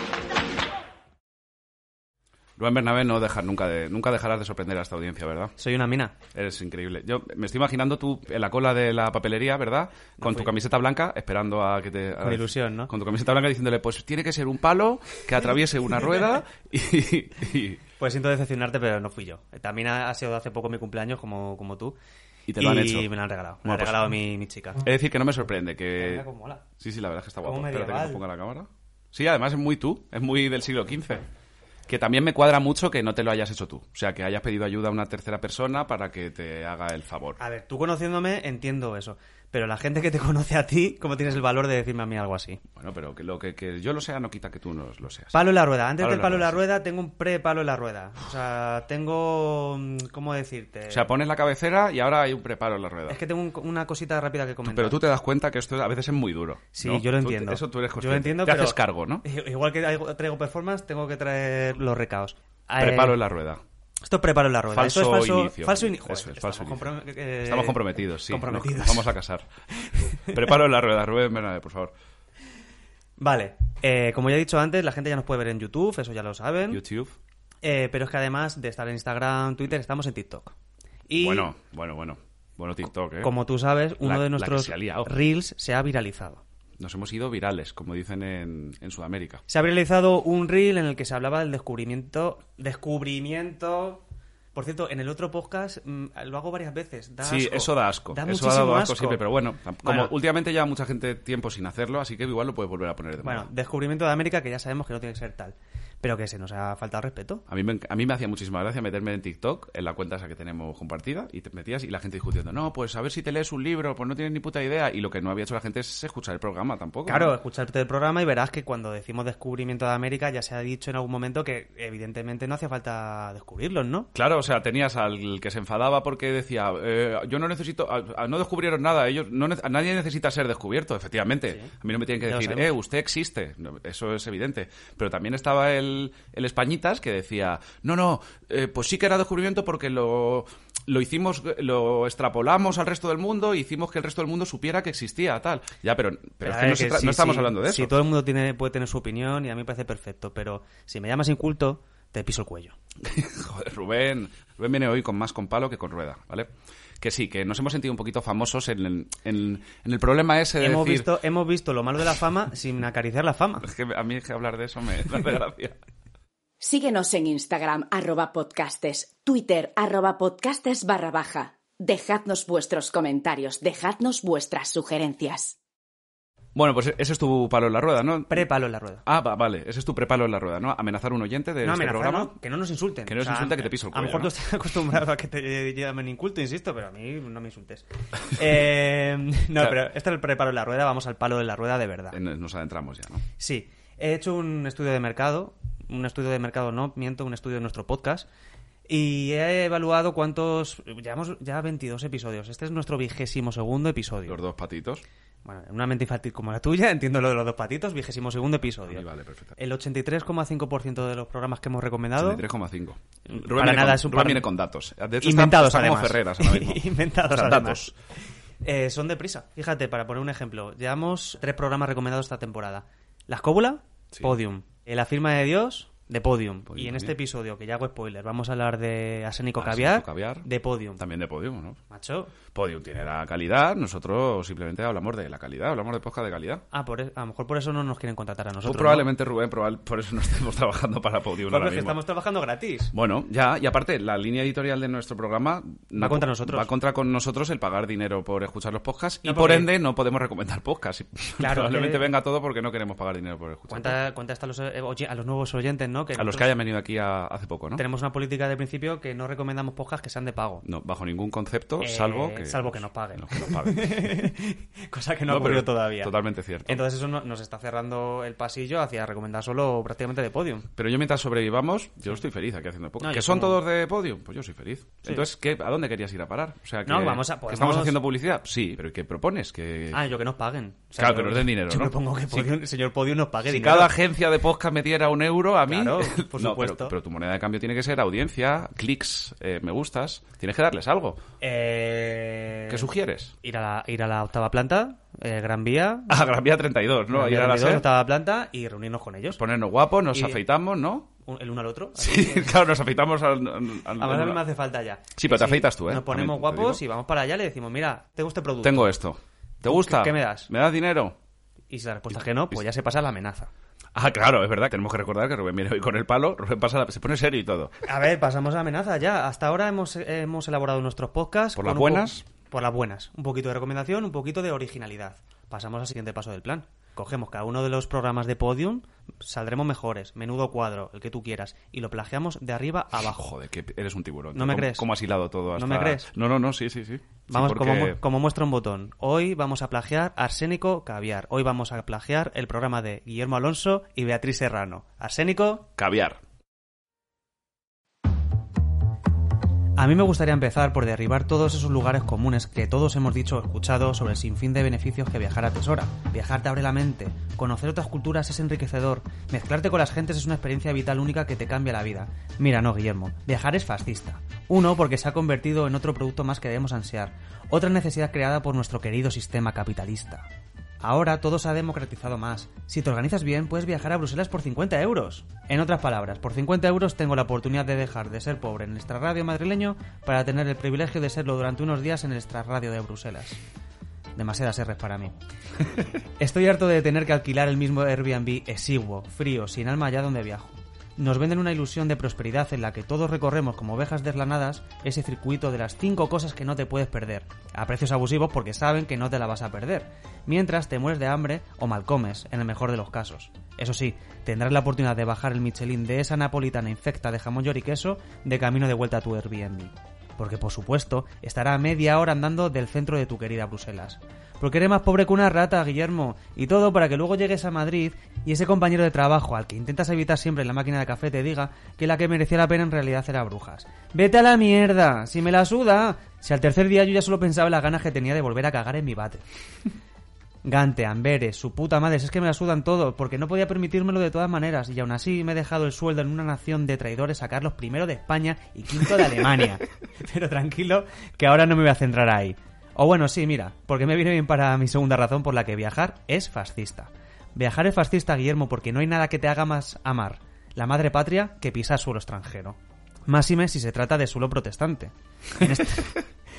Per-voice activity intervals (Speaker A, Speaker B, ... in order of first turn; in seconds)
Speaker A: 2.6-5.5, 6.3-17.8, 22.5-23.1, 23.6-24.1, 24.8-26.2, 26.8-31.2, 31.9-37.4, 42.8-45.4, 46.0-46.6, 50.9-53.2, 54.7-59.2, 62.8-63.6, 64.7-66.8, 67.4-69.5, 70.3-71.9, 76.7-77.2, 81.1-83.3, 84.0-85.1, 86.8-89.4, 97.2-103.5, 107.5-117.3, 124.1-147.9, 153.0-156.5, 157.0-161.1, 163.6-165.8, 176.6-178.4, 179.1-182.3, 183.1-184.3, 192.1-193.2, 204.3-205.0, 208.9-209.6, 212.2-217.9, 226.7-227.2, 229.6-230.5, 231.0-231.8, 232.5-236.6, 238.6-242.0, 242.9-254.0, 256.1-257.8, 260.6-264.1, 265.3-266.8, 270.8-280.0, 281.0-282.5, 283.5-291.2, 292.7-293.3, 296.1-297.8, 299.3-301.1, 302.0-304.4, 305.2-306.8, 308.6-311.1, 313.9-317.7, 321.6-322.2, 333.1-338.0, 345.8-346.2
Speaker B: 5.6-6.1, 10.2-10.5, 12.2-12.9, 18.0-21.9, 22.6-24.8, 26.0-26.6, 27.4-28.2, 37.4-42.6, 45.3-51.1, 53.1-55.0, 56.8-63.2, 64.0-69.1, 73.2-76.8, 77.6-80.5, 81.1-81.5, 83.2-86.4, 89.5-94.0, 94.5-99.2, 99.8-100.1, 103.2-107.4, 117.1-124.1, 132.2-132.7, 146.4-152.7, 160.6-163.7, 178.3-179.0, 181.6-192.2, 193.4-198.3, 198.9-204.4, 205.4-209.1, 209.6-212.4, 213.3-214.5, 215.2-217.9, 218.6-231.0, 231.9-232.3, 236.7-239.1, 241.5-242.9, 245.9-246.7, 249.2-249.7, 251.4-252.1, 253.7-256.5, 257.8-260.6, 261.8-266.1, 266.7-270.7, 273.0-273.6, 276.9-278.0, 279.9-283.9, 285.7-286.9, 291.4-292.9, 293.4-296.2, 297.1-299.4, 300.1-300.4, 301.2-302.6, 304.0-308.9, 309.6-310.5, 311.7-313.5, 317.9-333.2, 334.3-334.9, 335.6-336.1, 337.3-345.7, 349.8-370.3, 370.8-383.4, 384.2-385.2, 386.2-429.2, 430.4-456.0
Speaker C: 166.6-175.6